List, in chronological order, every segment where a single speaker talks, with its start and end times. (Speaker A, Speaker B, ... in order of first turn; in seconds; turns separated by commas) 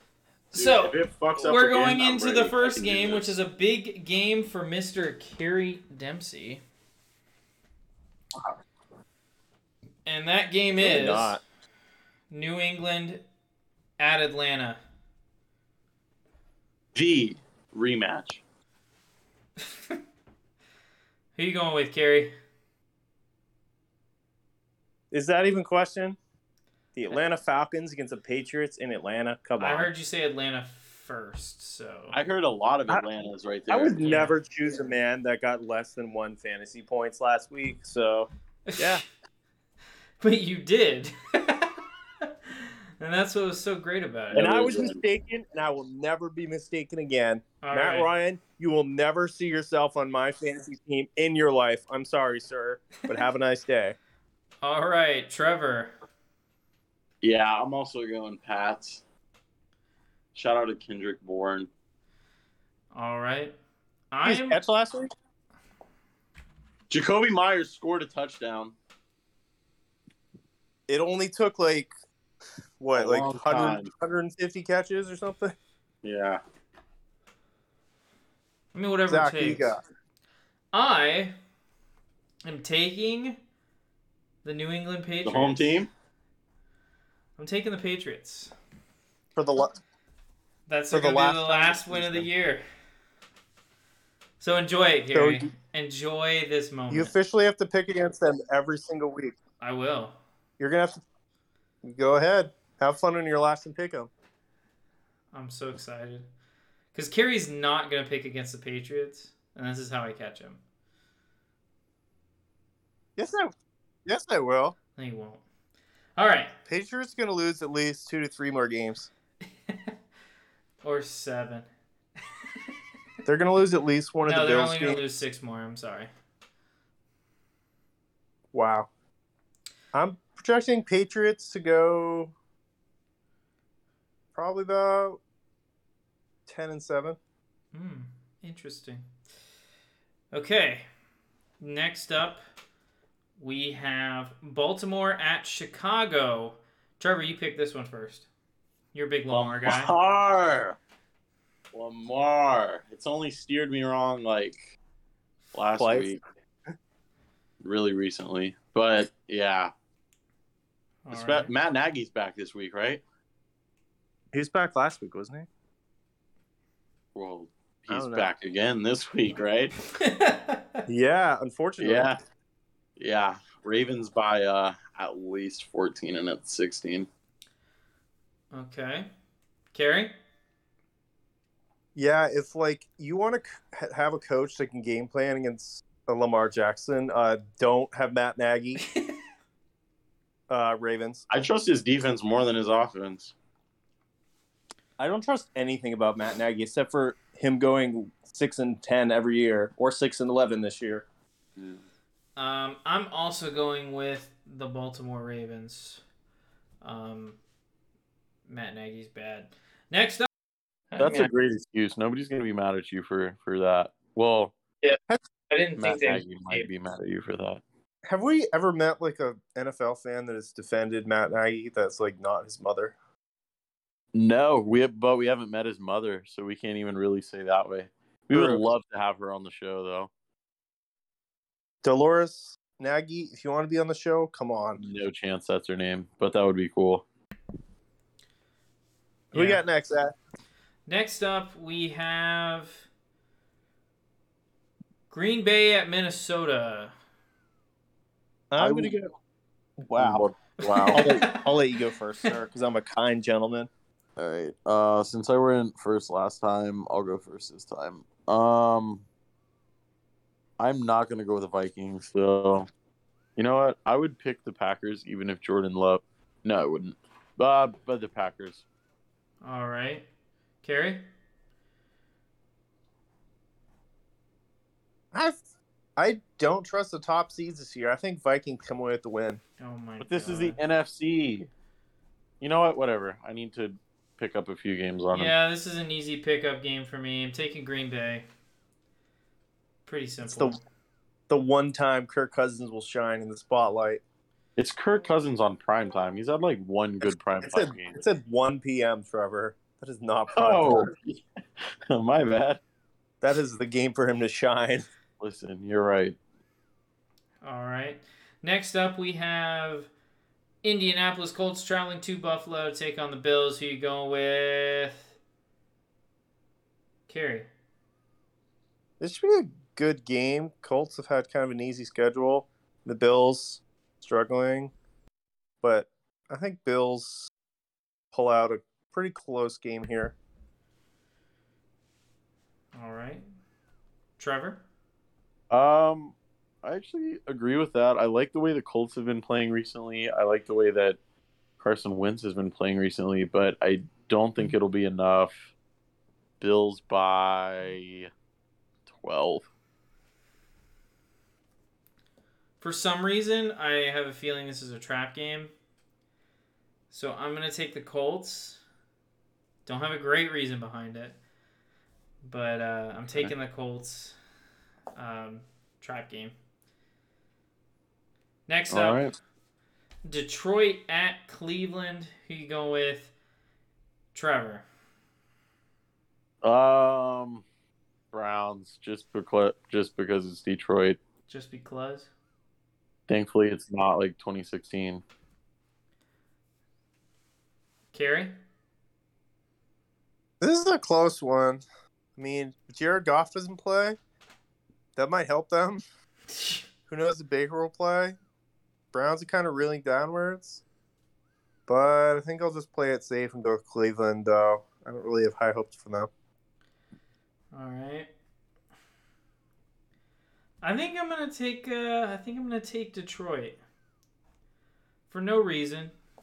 Speaker A: 0.5-3.4, Speaker B: 0.5-6.6, Speaker B: 10.1-11.4, Speaker C: 10.8-11.4, Speaker B: 12.3-13.2, Speaker B: 14.0-14.8, Speaker A: 16.9-18.4, Speaker B: 21.4-22.3, Speaker C: 25.1-26.2, Speaker C: 26.9-29.9, Speaker B: 29.6-32.2, Speaker A: 32.1-34.3, Speaker C: 33.7-39.0, Speaker B: 34.0-34.3, Speaker B: 38.7-39.0, Speaker B: 40.2-44.4, Speaker A: 44.3-45.0, Speaker C: 44.3-54.0, Speaker B: 47.6-48.1, Speaker B: 54.6-55.9, Speaker A: 57.2-59.0, Speaker A: 60.3-61.7, Speaker B: 62.9-63.5, Speaker B: 64.1-64.6, Speaker C: 64.2-65.1, Speaker A: 66.9-68.7, Speaker C: 70.9-71.9, Speaker C: 72.8-75.5, Speaker A: 72.9-73.9, Speaker A: 76.0-76.4, Speaker B: 78.7-79.7, Speaker C: 79.1-79.8, Speaker B: 80.7-81.3, Speaker B: 82.4-83.4, Speaker B: 84.4-85.8, Speaker A: 85.2-85.9, Speaker B: 87.4-88.5, Speaker C: 89.3-89.8, Speaker B: 90.7-92.6, Speaker C: 90.9-92.3, Speaker B: 94.4-97.1, Speaker C: 95.1-95.5, Speaker C: 96.9-99.3, Speaker B: 99.6-100.2, Speaker C: 100.6-101.0, Speaker C: 101.8-104.1, Speaker B: 105.3-106.2, Speaker B: 106.9-110.6, Speaker C: 113.2-113.5, Speaker C: 114.0-114.8, Speaker B: 115.0-115.4, Speaker B: 116.2-116.5, Speaker C: 116.7-119.1, Speaker B: 120.8-121.7, Speaker C: 123.2-125.0, Speaker B: 124.2-126.1, Speaker C: 128.5-128.9, Speaker C: 129.9-132.3, Speaker C: 134.3-135.2, Speaker C: 136.5-137.2, Speaker B: 137.7-139.1, Speaker B: 140.3-140.8, Speaker B: 141.6-142.4, Speaker B: 143.4-148.3, Speaker B: 148.9-149.9, Speaker A: 149.3-150.8, Speaker A: 151.7-154.7, Speaker A: 155.5-156.2, Speaker C: 155.8-156.1, Speaker A: 157.6-159.7, Speaker B: 161.1-161.5, Speaker A: 161.1-163.0, Speaker C: 164.3-165.5, Speaker A: 167.1-169.7, Speaker C: 167.9-168.3, Speaker B: 169.9-170.8, Speaker C: 170.9-172.1, Speaker A: 171.8-172.2, Speaker A: 173.0-177.1, Speaker B: 178.5-179.1, Speaker B: 179.7-180.1, Speaker C: 181.9-188.8, Speaker B: 188.9-189.2, Speaker C: 190.5-191.2, Speaker A: 191.3-193.3, Speaker C: 195.0-201.1, Speaker B: 202.4-206.0, Speaker B: 206.8-207.4, Speaker B: 208.5-210.3, Speaker B: 210.9-211.3, Speaker A: 211.0-214.5, Speaker B: 214.8-216.7, Speaker A: 215.8-217.6, Speaker C: 218.1-222.9, Speaker A: 224.1-230.1, Speaker C: 228.3-228.6, Speaker C: 231.8-234.8, Speaker A: 234.8-237.0, Speaker C: 239.3-240.1, Speaker B: 239.3-239.6, Speaker B: 240.9-242.8, Speaker B: 245.1-246.9, Speaker C: 248.5-249.1, Speaker A: 248.6-248.9, Speaker C: 249.8-250.2, Speaker A: 249.9-251.0, Speaker B: 250.7-251.4, Speaker C: 250.9-253.7, Speaker A: 254.2-259.0, Speaker A: 260.6-262.7, Speaker A: 263.4-268.6, Speaker B: 269.4-270.1, Speaker B: 270.6-271.0, Speaker C: 275.1-275.4, Speaker C: 276.0-279.4, Speaker B: 279.6-280.6, Speaker A: 280.0-281.5, Speaker A: 282.4-285.3, Speaker B: 285.1-288.2, Speaker B: 289.9-290.6, Speaker C: 290.2-290.6, Speaker C: 291.3-294.0, Speaker A: 294.6-298.0, Speaker C: 297.0-300.9, Speaker A: 300.3-301.2, Speaker A: 301.9-302.6, Speaker C: 303.2-304.9, Speaker A: 305.2-306.2, Speaker B: 307.4-309.9, Speaker B: 310.6-315.1, Speaker B: 317.1-317.5, Speaker C: 319.0-324.7, Speaker C: 325.6-327.3, Speaker C: 328.1-330.1, Speaker B: 332.7-333.2, Speaker B: 334.2-334.6, Speaker A: 335.5-341.0, Speaker A: 341.6-345.5, Speaker A: 346.4-348.1, Speaker A: 348.9-349.5, Speaker B: 352.6-355.5, Speaker B: 356.9-358.6, Speaker B: 359.6-361.2, Speaker B: 362.2-364.1, Speaker B: 364.9-366.3, Speaker B: 368.5-369.0, Speaker A: 368.7-369.1, Speaker B: 370.1-373.1, Speaker B: 374.1-374.6, Speaker A: 376.4-377.4, Speaker A: 378.1-381.0, Speaker B: 381.3-382.1, Speaker A: 383.1-385.0, Speaker B: 387.9-388.3, Speaker C: 390.4-391.6, Speaker C: 392.2-394.0, Speaker C: 394.9-395.8, Speaker C: 396.9-398.1, Speaker C: 398.9-400.6, Speaker C: 401.7-406.1, Speaker B: 407.5-408.1, Speaker B: 410.6-413.6, Speaker B: 415.1-415.9